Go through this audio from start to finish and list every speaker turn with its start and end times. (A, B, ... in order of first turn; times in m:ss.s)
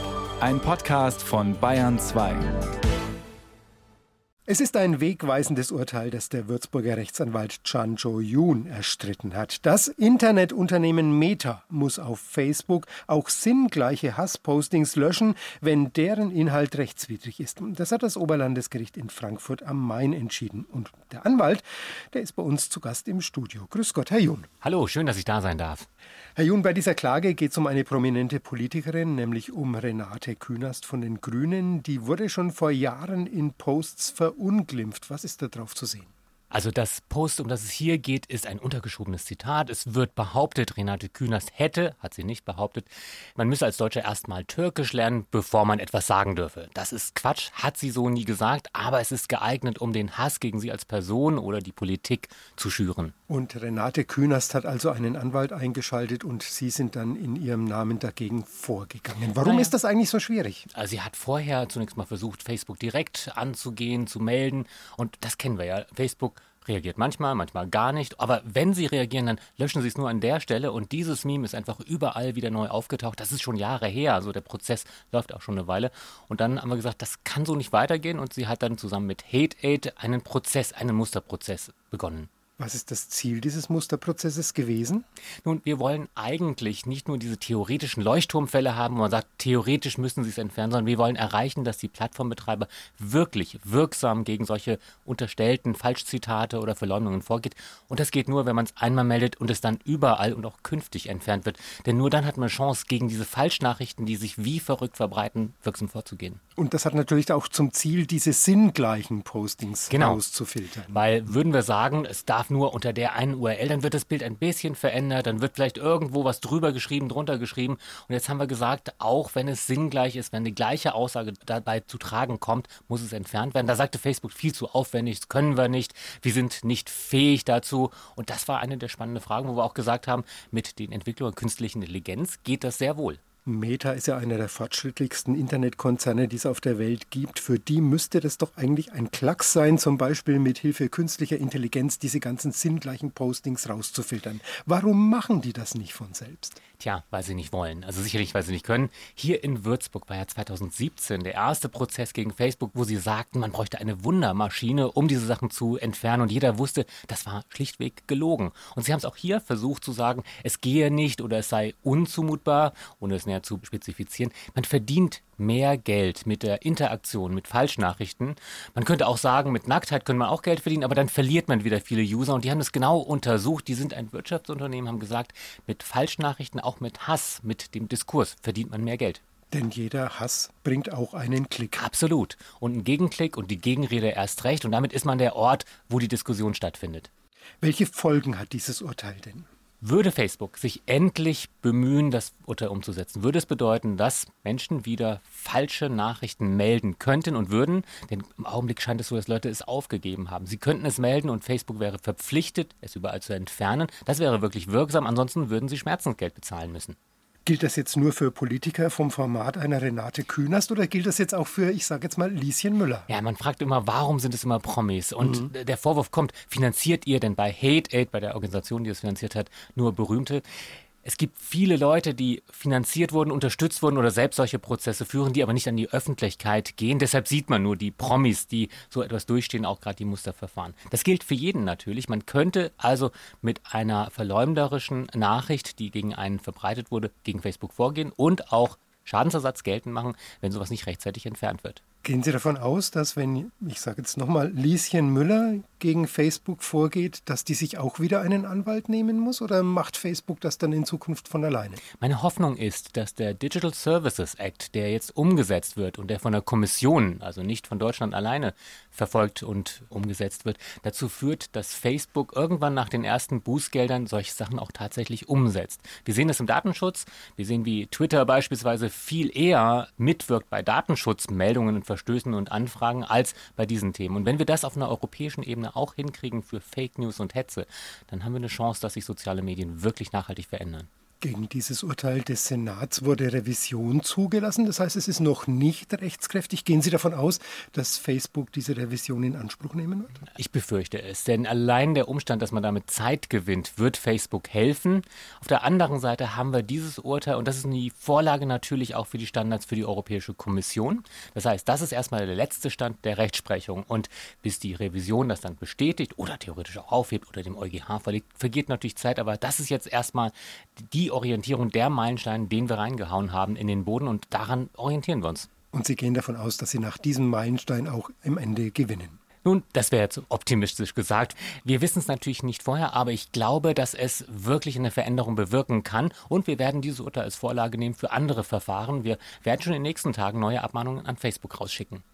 0:00.4-0:02.5 A
0:04.5-0:24.5 B
0:24.6-0:25.9 C
0:26.4-0:36.1 B
0:36.5-0:53.1 C
0:53.3-1:00.6 B
0:59.4-0:59.7 C
1:00.7-1:22.3 C
1:22.6-1:25.0 B
1:25.4-1:46.4 C
1:46.6-1:51.0 B
1:49.9-1:50.2 C
1:50.9-2:13.2 C
2:13.4-2:26.6 B
2:26.8-2:59.2 C
2:59.5-3:01.8 B
3:01.8-3:07.1 C
3:07.6-3:09.4 B
3:09.8-3:27.0 C
3:27.4-3:33.1 B
3:33.1-3:40.4 C
3:35.2-3:35.5 B
3:41.0-4:01.8 C
4:02.0-4:11.8 B
4:12.0-4:40.9 C
4:41.2-4:50.2 B
4:50.3-5:15.5 C
5:15.7-5:19.2 B
5:19.4-5:32.0 C